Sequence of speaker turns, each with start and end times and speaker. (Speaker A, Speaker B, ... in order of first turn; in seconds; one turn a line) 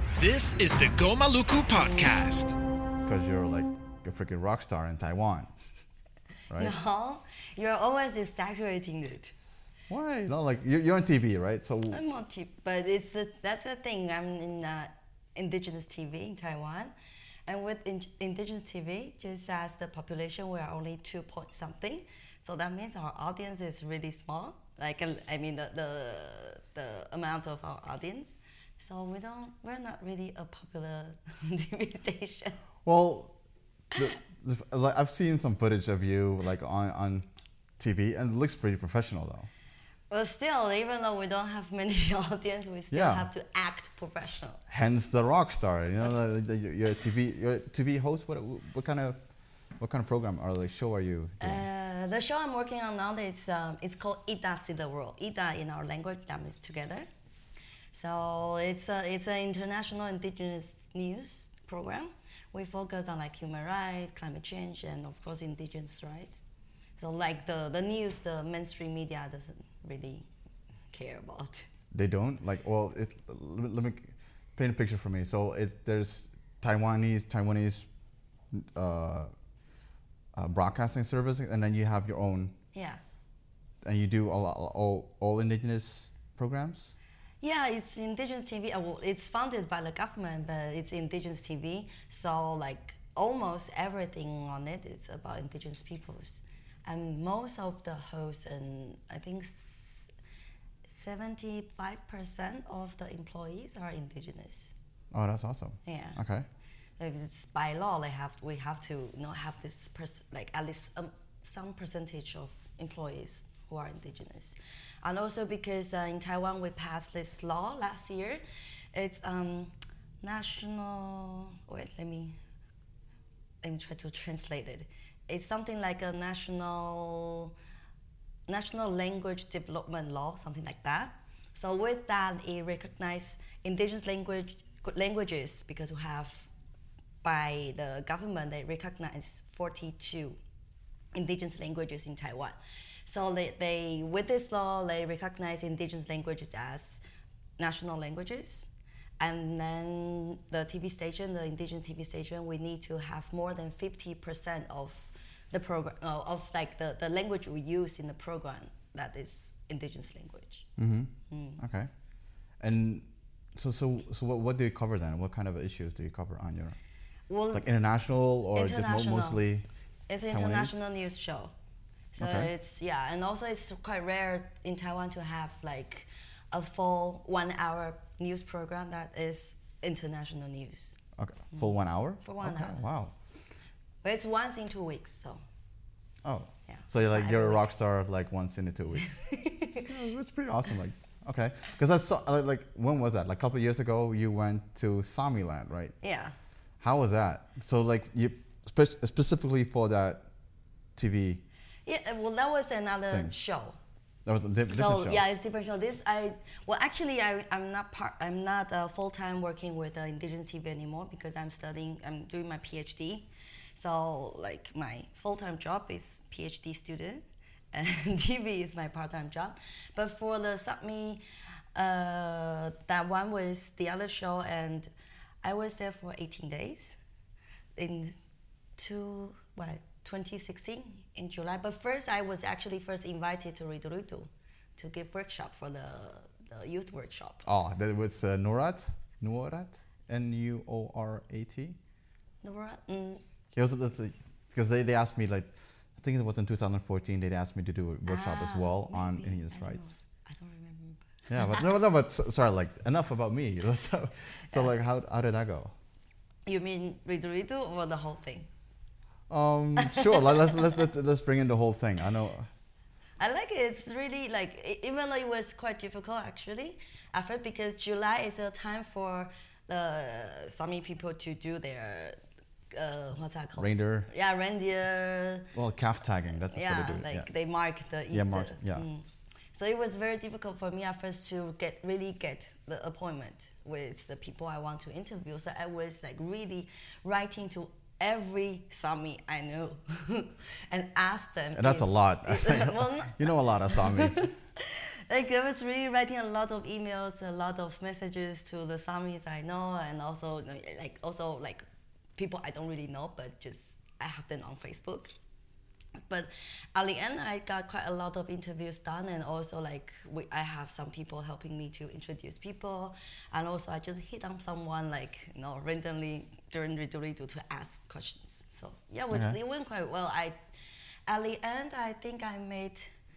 Speaker A: 0.2-2.5
Speaker B: 3.0-5.5
Speaker B: 6.5-6.7
Speaker C: 6.5-9.3
Speaker B: 9.9-12.0
Speaker C: 11.9-16.9
Speaker C: 17.4-32.6
Speaker B: 32.8-33.4
Speaker B: 33.9-37.3
Speaker B: 37.8-39.5
Speaker C: 40.1-44.6
Speaker B: 42.9-43.3
Speaker B: 44.2-49.2
Speaker B: 49.8-51.6
Speaker C: 51.4-57.1
Speaker C: 57.9-66.4
Speaker C: 67.0-70.3
Speaker C: 70.9-71.7
Speaker B: 71.9-77.9
Speaker B: 78.5-79.3
Speaker B: 80.3-82.5
Speaker C: 82.7-83.0
Speaker B: 83.8-87.0
Speaker C: 87.4-100.1
Speaker C: 100.9-104.7
Speaker B: 105.1-106.5
Speaker C: 105.8-106.2
Speaker C: 107.0-118.4
Speaker C: 118.9-122.4
Speaker C: 123.6-127.5
Speaker C: 128.5-136.5
Speaker C: 137.2-140.4
Speaker C: 141.1-147.0
Speaker C: 147.6-148.7
Speaker C: 149.2-160.7
Speaker B: 160.8-161.9
Speaker C: 161.3-161.6
Speaker B: 162.6-166.8
Speaker C: 167.3-167.7
Speaker B: 167.5-169.7
Speaker C: 168.5-169.4
Speaker C: 170.1-171.5
Speaker B: 170.3-170.8
Speaker C: 172.1-181.0
Speaker B: 172.2-172.5
Speaker B: 181.2-183.2
Speaker C: 182.2-182.8
Speaker C: 184.0-185.4
Speaker B: 186.2-189.1
Speaker C: 186.7-187.7
Speaker C: 189.0-189.9
Speaker B: 189.7-195.9
Speaker C: 196.0-196.3
Speaker B: 196.8-200.3
Speaker B: 200.9-201.4
Speaker C: 201.8-203.8
Speaker B: 204.2-205.2
Speaker C: 204.7-221.2
Speaker C: 221.7-224.9
Speaker C: 225.4-227.0
Speaker C: 227.8-228.2
Speaker C: 228.8-237.4
Speaker B: 237.4-241.8
Speaker C: 242.4-243.2
Speaker B: 243.5-250.0
Speaker C: 248.1-251.6
Speaker B: 251.3-255.7
Speaker C: 256.4-258.5
Speaker B: 259.3-262.5
Speaker C: 259.8-260.8
Speaker C: 263.2-272.2
Speaker C: 272.7-275.5
Speaker B: 273.6-274.1
Speaker B: 275.5-277.3
Speaker C: 276.5-301.6
Speaker B: 278.1-278.9
Speaker B: 291.6-294.3
Speaker C: 302.1-305.1
Speaker C: 306.0-320.4
Speaker B: 319.1-319.4
Speaker C: 321.1-322.9